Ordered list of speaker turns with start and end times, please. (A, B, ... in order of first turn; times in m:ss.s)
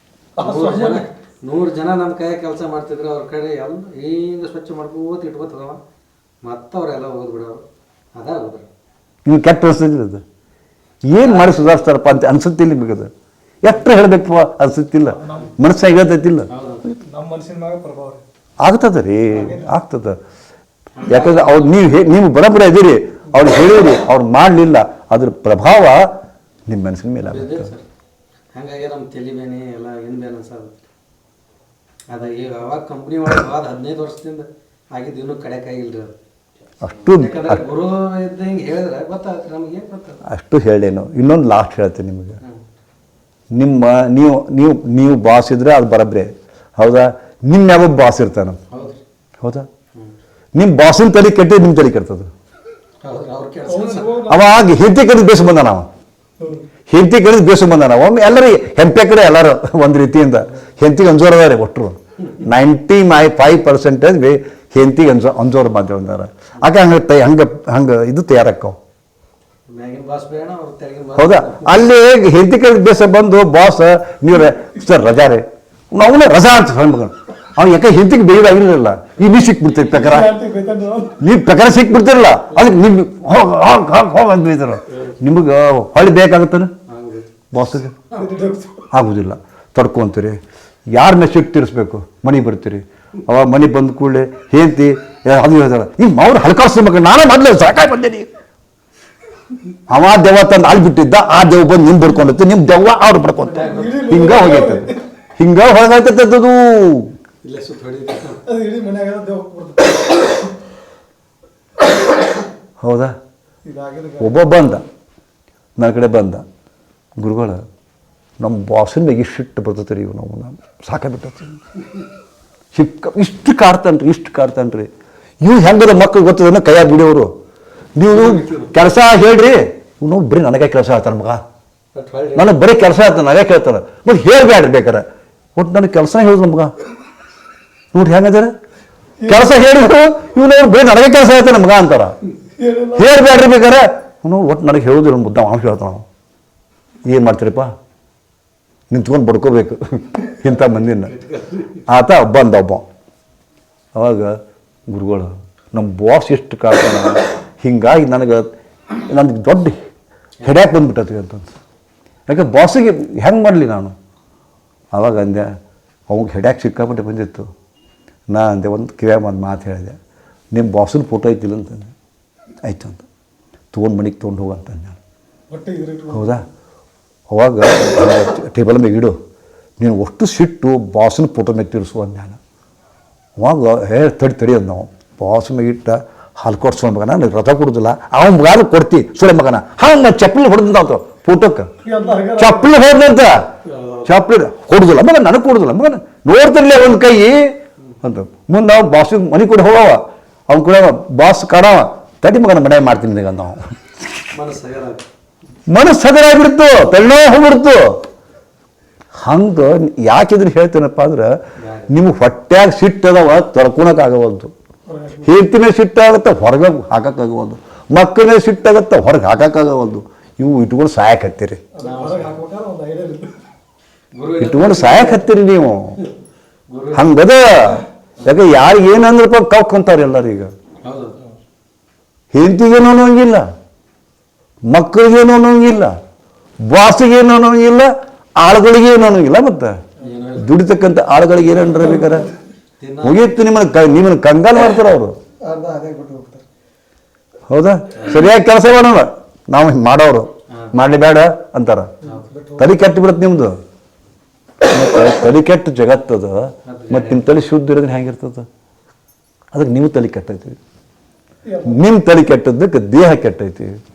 0:00.4-0:01.0 A
0:00.4-0:05.8 B
0:06.4-0:07.6 B
0:08.2-0:08.7 B
0:09.2-0:10.2 C
0:11.1-0:13.1 C
0:11.1-0:11.8 B
0:13.6-0:16.5 C
0:15.1-0:15.5 A
0:16.5-0:17.0 B
0:17.0-0:18.2 A
0:18.6-0:20.2 C
0:19.3-0:19.7 A
0:21.0-0:22.1 B
0:21.1-0:26.1 C
0:26.7-0:27.7 C
0:27.2-0:27.8 B
0:28.5-0:30.7 B
0:32.1-0:36.1 B
0:36.8-0:37.6 C
0:37.1-0:40.2 B
0:40.2-0:42.4 C
0:43.5-0:48.6 C
0:48.7-0:49.0 B
0:49.4-0:49.7 C
0:50.6-0:52.3 C
0:53.0-0:54.1 B
0:53.7-0:54.4 A
0:54.3-0:55.9 C
0:56.4-0:56.7 A
0:56.9-1:08.8 C
1:09.7-1:11.8 B
1:11.2-1:20.4 C
1:19.6-1:20.2 B
1:19.9-1:21.2 A
1:21.2-1:26.7 C
1:26.9-1:27.3 B
1:27.5-1:28.0 C
1:28.1-1:28.9 A
1:28.9-1:30.4 C
1:30.9-1:38.3 C
1:39.9-1:47.1 C
1:43.5-1:44.1 B
1:43.6-1:45.0 A
1:47.4-1:48.4 B
1:48.4-1:50.5 A
1:52.8-1:53.1 C
1:53.6-1:54.4 A
1:54.2-1:54.8 C
1:55.8-1:56.4 C
1:57.2-1:57.6 C
1:58.4-2:01.6 C
2:02.7-2:04.9 C
2:05.4-2:07.3 C
2:07.9-2:11.4 C
2:08.1-2:08.7 B
2:11.9-2:12.6 B
2:12.3-2:15.0 C
2:15.6-2:16.7 C
2:17.9-2:18.5 C
2:19.2-2:19.5 A
2:19.3-2:22.2 C
2:22.5-2:23.2 A
2:22.9-2:26.0 C
2:27.0-2:27.7 C
2:28.9-2:31.1 C
2:30.9-2:31.8 B
2:31.9-2:32.8 C
2:33.9-2:34.4 C
2:34.9-2:39.8 C
2:40.4-2:41.5 C
2:42.3-2:43.9 C
2:44.9-2:45.5 C
2:46.1-2:47.5 C
2:48.3-2:50.0 C
2:50.5-2:51.9 C
2:52.6-2:53.0 C
2:53.7-2:55.0 C
2:55.5-2:56.4 A
2:56.1-2:56.4 C
2:57.3-2:59.1 C
2:59.8-3:02.4 C
3:03.4-3:11.7 C
3:11.8-3:12.7 A
3:12.4-3:13.4 C
3:13.6-3:14.1 B
3:14.0-3:23.6 C
3:24.3-3:25.0 B
3:25.7-3:28.0 C
3:29.2-3:31.4 C
3:31.6-3:31.9 B
3:31.9-3:34.5 C
3:34.9-3:35.4 A
3:35.2-3:41.6 C
3:41.7-3:43.4 A
3:41.8-3:42.3 B
3:44.2-3:45.3 B
3:44.4-3:46.0 C
3:46.7-3:47.2 B
3:46.9-3:50.5 C
3:50.8-3:51.2 B
3:52.3-3:53.4 C
3:54.7-3:55.9 C
3:56.6-3:59.8 C
4:00.0-4:00.6 B
4:00.4-4:02.3 C
4:02.8-4:03.3 B
4:03.0-4:05.1 C
4:05.4-4:06.4 A
4:07.5-4:11.9 C
4:10.5-4:10.7 B
4:12.0-4:12.8 A
4:12.6-4:13.6 C
4:14.6-4:18.5 C
4:16.7-4:17.3 B
4:19.5-4:20.6 C
4:21.4-4:21.8 A
4:21.6-4:23.7 C